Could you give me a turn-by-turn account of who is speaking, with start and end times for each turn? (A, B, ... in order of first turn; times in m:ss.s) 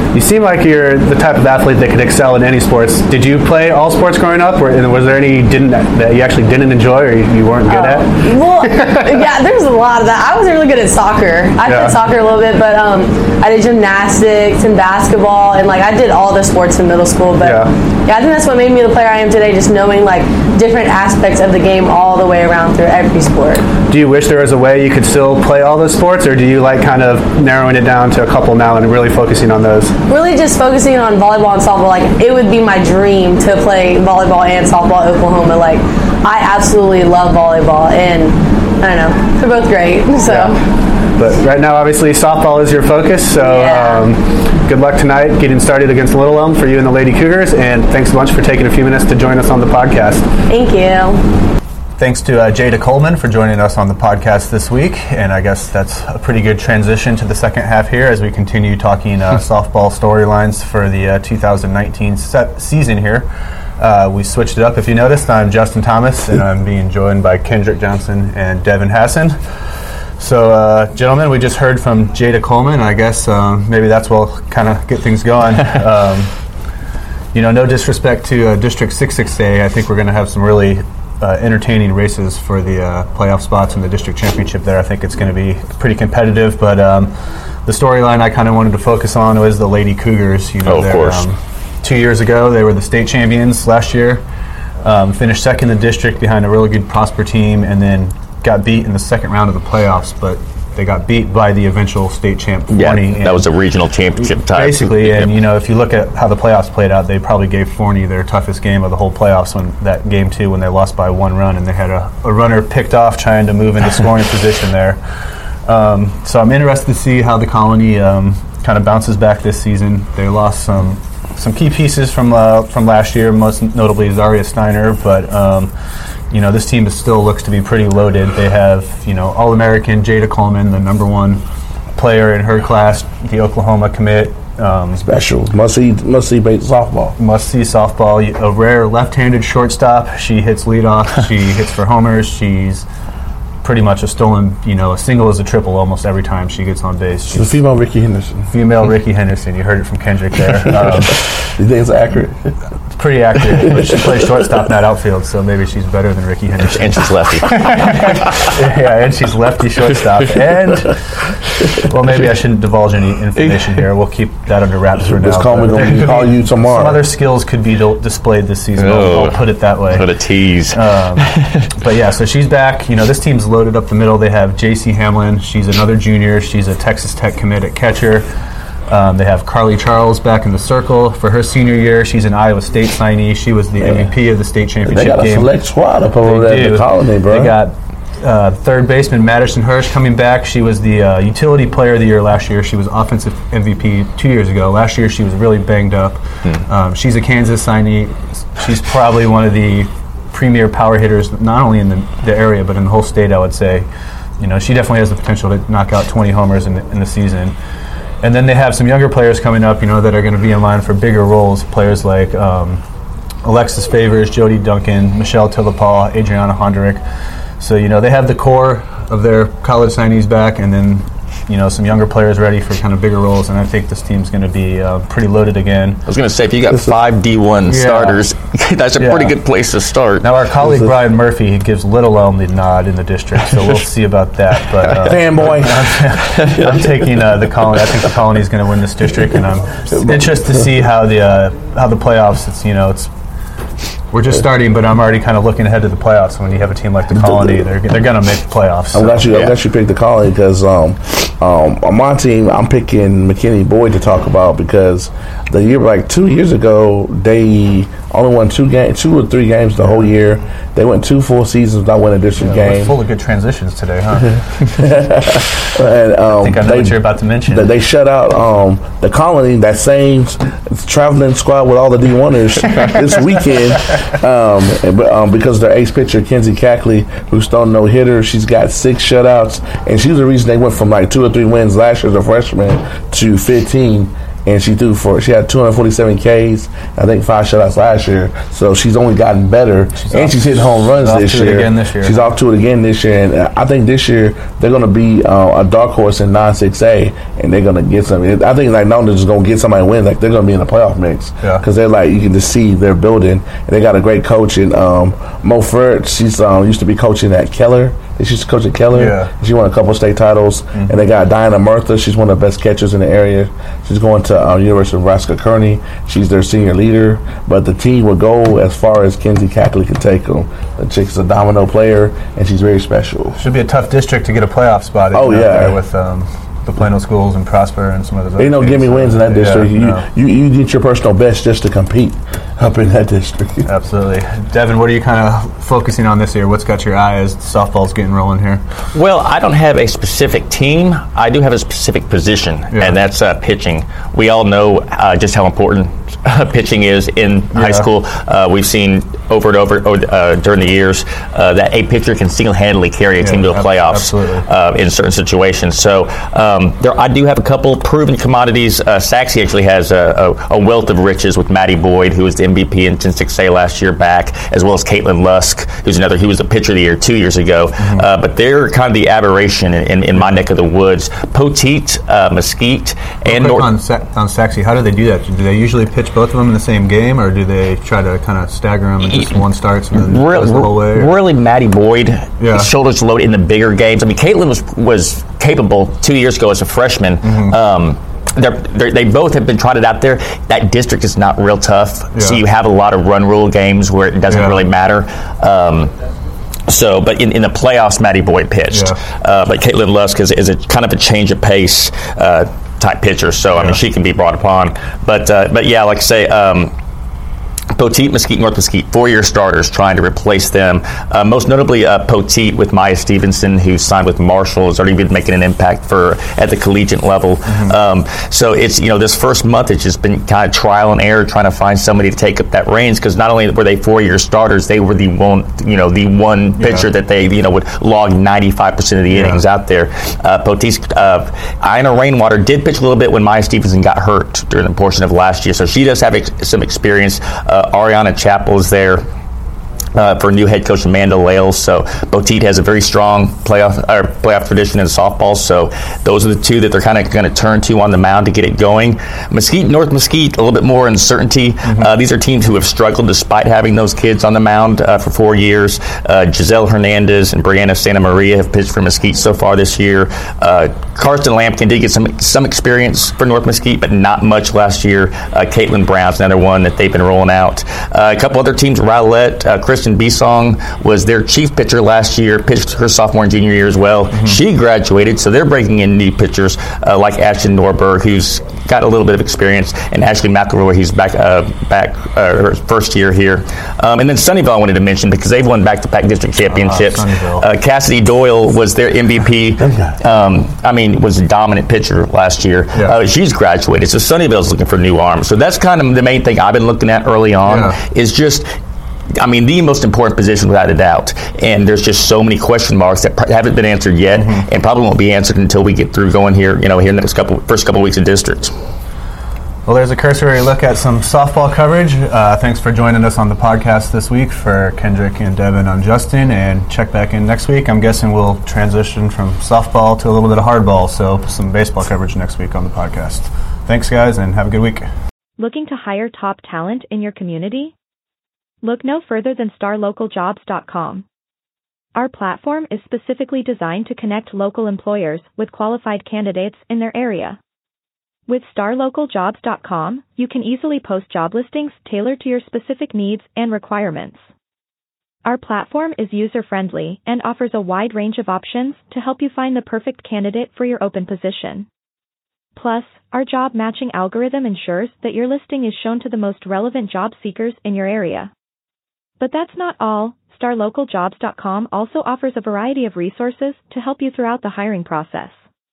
0:00.1-0:09.1 A
0:07.7-0:23.7 B
0:11.6-0:12.0 A
0:17.4-0:17.7 A
0:23.9-0:29.9 A
0:30.1-0:40.6 B
0:40.3-0:40.6 A
0:41.2-0:50.2 A
0:43.4-0:44.1 B
0:50.5-0:51.2 B
0:52.0-1:03.3 C
1:03.8-1:09.4 C
1:10.2-1:16.3 C
1:17.3-1:27.1 C
1:27.7-1:34.2 C
1:30.6-1:31.3 D
1:34.8-1:43.5 C
1:42.7-1:45.4 D
1:44.2-1:55.0 C
1:55.7-2:05.7 C
2:06.3-2:11.4 C
2:12.0-2:15.1 C
2:15.0-2:17.2 E
2:17.2-2:22.9 C
2:23.6-2:27.6 C
2:27.3-2:28.5 E
2:28.5-2:31.2 C
2:31.6-2:32.5 E
2:33.0-2:41.3 C
2:33.4-2:34.1 E
2:36.6-2:38.4 D
2:41.9-2:50.1 C
2:45.0-2:47.0 E
2:48.8-2:51.7 D
2:50.7-2:58.3 C
2:58.9-3:05.5 C
3:04.8-3:07.6 E
3:06.2-3:23.9 C
3:24.4-3:27.6 C
3:28.2-3:32.8 C
3:33.4-3:37.0 C
3:37.6-3:46.0 C
3:46.1-3:50.3 D
3:47.7-3:48.2 C
3:49.0-3:49.4 C
3:50.2-4:03.1 C
3:54.8-3:58.0 E
3:59.9-4:00.7 E
4:04.1-4:09.3 C
4:07.1-4:07.6 E
4:08.9-4:23.0 E
4:09.3-4:09.6 D
4:19.8-4:20.1 C
4:22.4-4:24.9 C
4:24.8-5:23.4 E
4:26.3-4:27.7 C
4:50.0-4:52.3 C
5:08.9-5:09.3 C
5:10.7-5:11.0 C
5:23.4-5:30.1 C
5:25.1-5:25.8 E
5:28.4-5:33.7 E
5:33.7-5:38.6 C
5:38.9-6:13.7 D
5:42.7-5:43.0 C
5:47.5-5:47.9 C
5:53.2-5:54.5 C
6:07.8-6:08.1 C
6:10.2-6:10.4 C
6:13.2-6:21.1 C
6:19.9-6:35.9 D
6:22.4-6:22.7 C
6:27.2-6:27.6 C
6:32.1-6:32.4 C
6:34.3-6:34.6 C
6:36.7-6:46.7 D
6:38.7-6:39.0 C
6:43.5-6:43.8 C
6:47.8-7:19.0 D
6:57.5-6:57.8 C
7:06.6-7:06.9 C
7:09.1-7:09.4 C
7:20.0-8:18.5 D
7:54.1-7:54.4 C
8:06.5-8:07.5 C
8:17.4-8:17.8 C
8:19.2-8:28.6 D
8:24.2-8:24.5 C
8:29.7-8:44.9 C
8:45.4-8:47.7 F
8:48.6-8:51.0 F
8:52.0-8:57.4 F
8:58.3-9:04.3 F
9:05.2-9:11.7 F
9:12.6-9:18.3 F
9:19.2-9:25.5 F